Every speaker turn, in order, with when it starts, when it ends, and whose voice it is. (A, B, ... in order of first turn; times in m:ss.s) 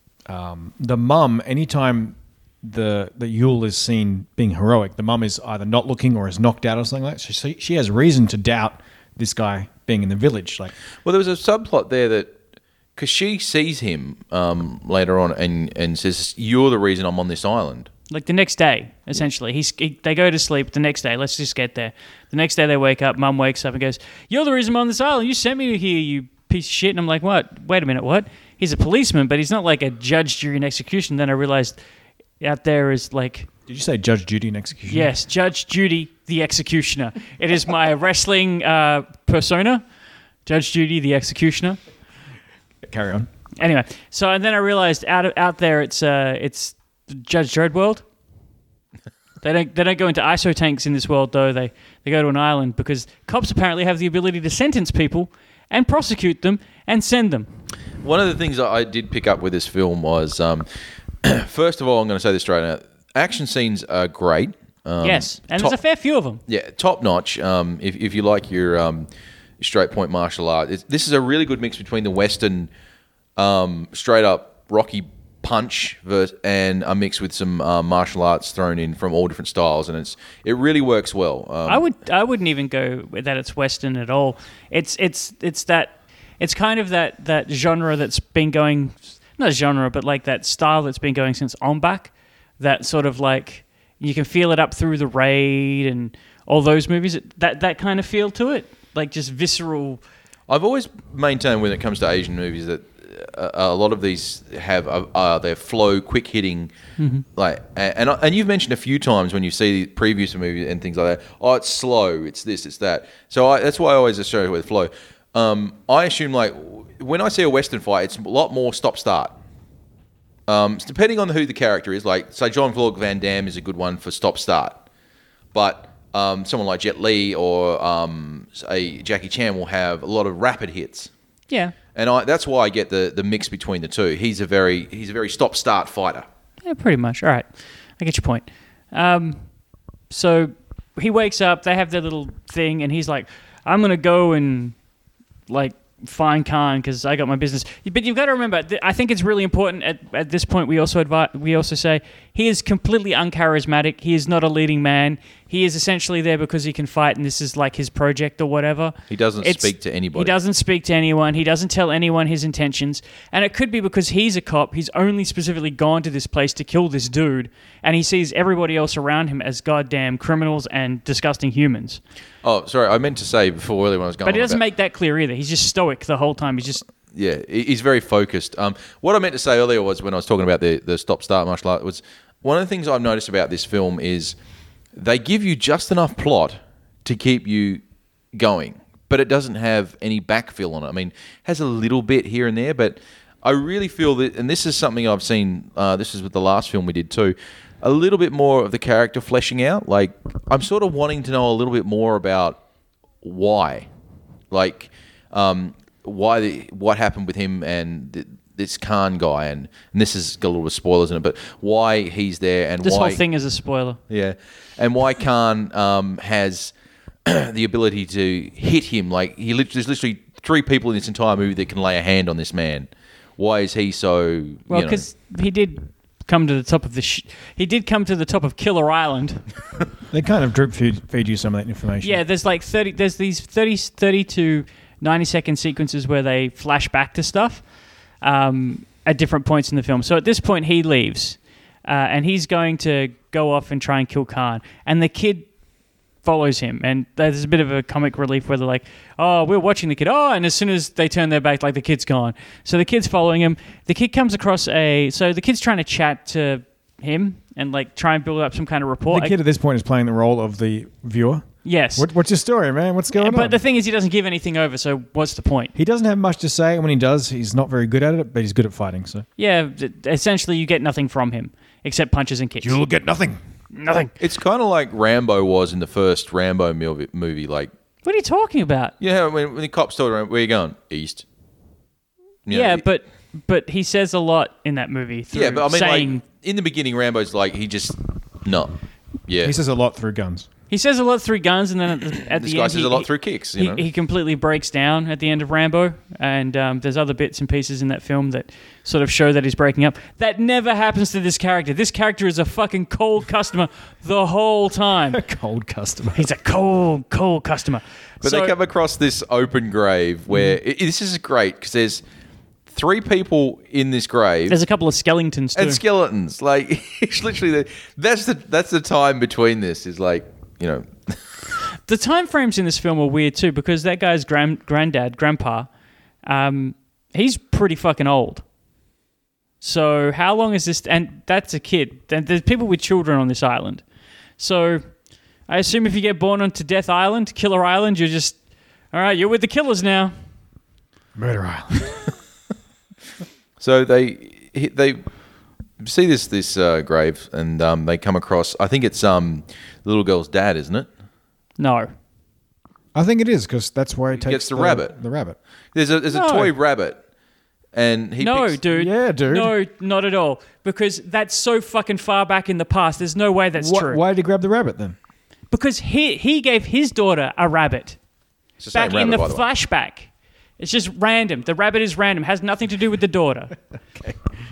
0:00.3-0:10.7 A
0:11.0-0:12.4 B
0:13.0-0:17.9 B
0:18.1-0:31.8 C
0:32.4-0:33.5 C
0:33.7-0:35.1 A
0:34.9-0:39.8 C
0:40.5-0:41.8 C
0:42.8-0:43.3 A
0:43.6-0:48.0 C
0:49.4-0:57.5 C
0:58.0-1:00.7 B
1:01.2-1:05.8 B
1:05.0-1:06.4 C
1:06.5-1:09.1 B
1:09.6-1:12.7 B
1:13.4-1:21.9 B
1:21.7-1:40.0 C
1:40.5-1:46.7 B
1:47.0-1:47.2 C
1:47.4-1:59.4 B
2:00.5-2:04.8 B
2:05.5-2:11.1 B
2:11.5-2:11.8 C
2:12.0-2:16.3 B
2:16.6-2:19.4 C
2:20.1-2:24.8 C
2:25.5-2:52.0 C
2:39.1-2:40.3 B
2:52.4-2:54.6 B
2:54.2-2:56.8 C
2:57.1-3:04.4 B
3:05.0-3:07.8 B
3:08.3-3:22.6 B
3:23.2-3:23.9 B
3:24.5-3:33.2 B
3:32.8-3:34.0 C
3:34.1-3:36.7 B
3:37.3-3:45.0 B
3:44.7-3:49.5 C
3:50.1-3:52.2 A
3:52.0-3:57.6 C
3:58.2-4:05.5 C
4:06.2-4:19.4 C
4:19.1-4:23.6 A
4:21.6-4:22.1 C
4:23.1-4:25.7 C
4:25.8-4:29.3 A
4:29.4-4:32.8 C
4:32.6-4:33.4 A
4:33.7-4:34.1 C
4:34.2-4:37.7 B
4:38.0-4:38.9 C
4:39.0-4:41.2 B
4:42.5-4:42.8 B
4:42.5-4:46.2 C
4:45.3-4:48.7 B
4:49.3-4:49.6 B
4:49.4-4:50.5 A
4:50.7-5:05.2 C
4:52.3-4:53.8 B
5:05.1-5:06.3 A
5:06.2-5:08.6 C
5:08.2-5:12.0 B
5:12.7-5:14.6 B
5:14.5-5:15.8 C
5:15.6-5:21.2 B
5:21.9-5:25.7 C
5:26.3-5:28.4 C
5:29.6-5:33.8 C
5:34.4-5:34.9 C
5:35.5-5:38.4 C
5:38.9-5:40.1 C
5:41.2-5:41.9 A
5:43.6-5:45.0 B
5:45.8-5:50.9 B
5:51.6-5:51.9 C
5:53.0-5:55.4 A
5:54.1-5:55.0 B
5:55.7-5:57.0 B
5:56.1-5:56.5 C
5:57.7-5:58.6 B
5:58.2-6:04.0 C
5:58.7-5:59.5 A
6:03.6-6:05.0 A
6:05.5-6:08.0 C
6:08.6-6:09.5 B
6:08.7-6:13.6 C